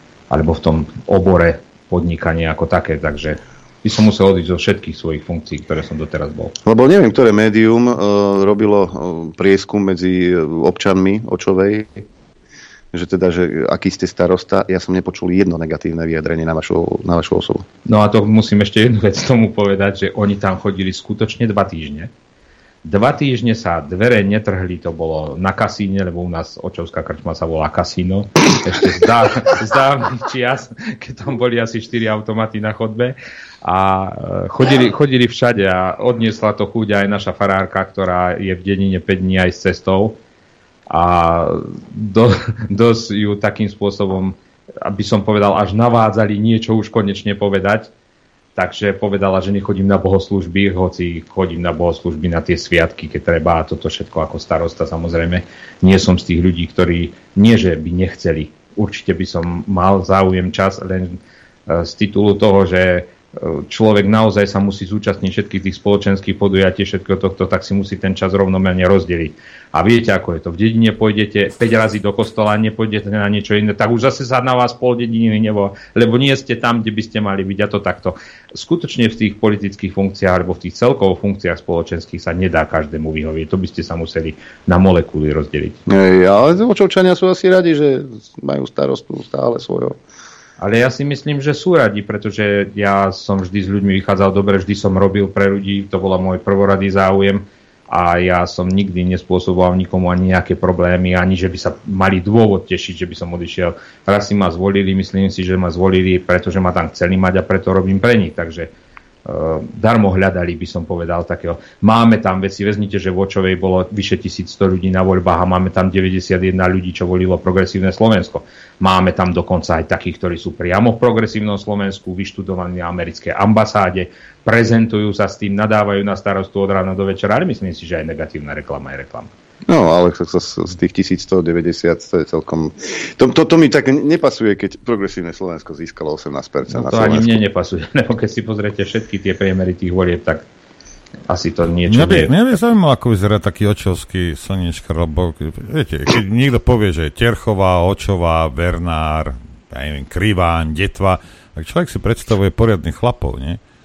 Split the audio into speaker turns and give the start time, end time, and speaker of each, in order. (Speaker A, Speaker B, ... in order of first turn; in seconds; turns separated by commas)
Speaker A: 0.3-6.5, Speaker B: 6.7-12.0, Speaker B: 12.9-17.6, Speaker A: 17.9-22.1, Speaker A: 22.8-40.1, Speaker A: 40.9-47.9, Speaker A: 48.5-85.8, Speaker B: 85.9-90.0, Speaker A: 90.6-108.7, Speaker A: 109.2-129.3, Speaker B: 129.7-137.4, Speaker A: 136.7-140.4, Speaker A: 141.3-142.3, Speaker C: 141.9-153.6